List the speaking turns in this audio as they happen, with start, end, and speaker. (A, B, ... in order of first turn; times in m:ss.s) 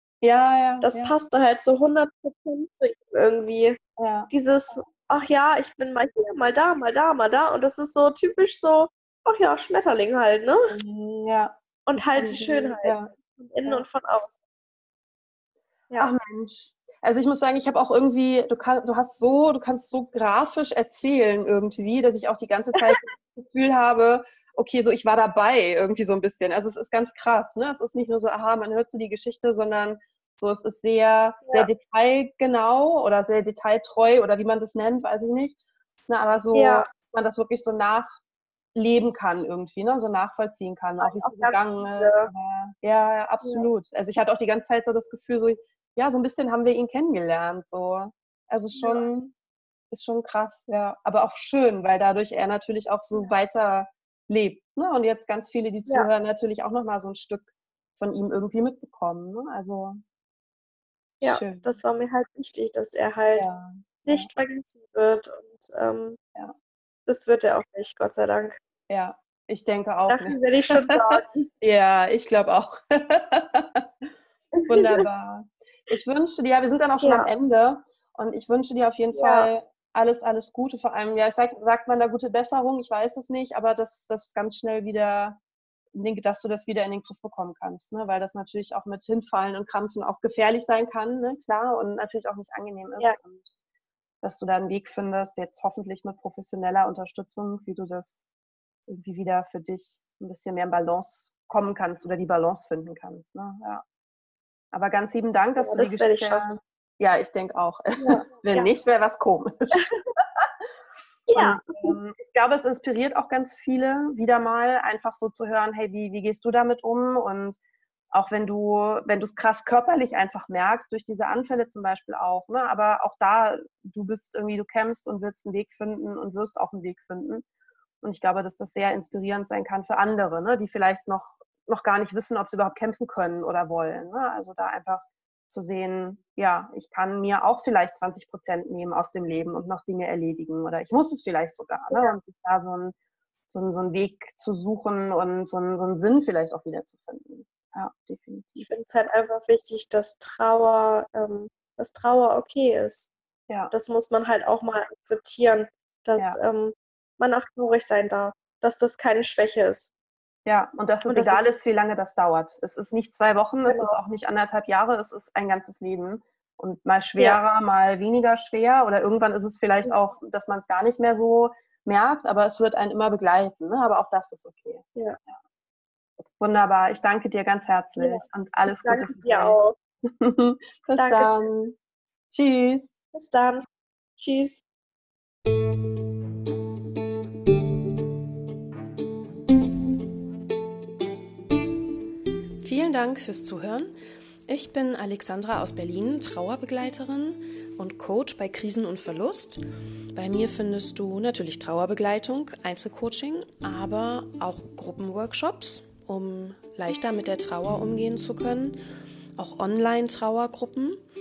0:00.2-0:01.1 A
0:00.8-0:03.8 B
0:04.0-0:04.9 A
0:04.3-0:10.7 B
0:10.7-0:13.1 A
0:11.9-0:14.4 B
0:16.0-0:35.6 A
0:36.1-0:38.2 A
0:36.5-0:36.9 B
0:38.7-0:49.4 A
0:41.0-0:42.3 B
0:48.7-0:49.1 B
0:49.9-1:00.0 A
1:01.2-1:03.5 B
1:01.2-1:01.7 A
1:03.4-1:04.3 A
1:04.0-1:06.2 B
1:07.1-1:08.6 B
1:08.9-1:13.9 A
1:10.1-1:11.5 B
1:14.5-1:15.1 B
1:14.7-1:25.4 A
1:17.0-1:17.3 B
1:19.2-1:19.5 B
1:26.0-1:33.5 A
1:34.2-1:38.2 A
1:38.9-1:43.8 A
1:44.7-1:50.5 A
1:45.6-1:46.6 B
1:48.0-1:48.7 B
1:51.3-1:52.0 B
1:51.4-1:57.6 A
1:58.1-2:07.4 A
2:08.0-2:23.0 A
2:23.5-2:28.7 A
2:28.6-2:33.1 B
2:33.7-2:39.9 B
2:40.5-2:55.3 A
2:41.1-2:41.5 B
2:43.7-2:44.0 B
2:56.4-3:01.8 A
2:58.0-2:59.8 B
3:01.0-3:01.5 B
3:02.3-3:02.9 A
3:03.1-3:03.6 B
3:04.2-3:04.6 B
3:12.6-3:13.9 C
3:14.5-3:19.6 C
3:20.1-3:28.8 C
3:29.4-3:31.0 C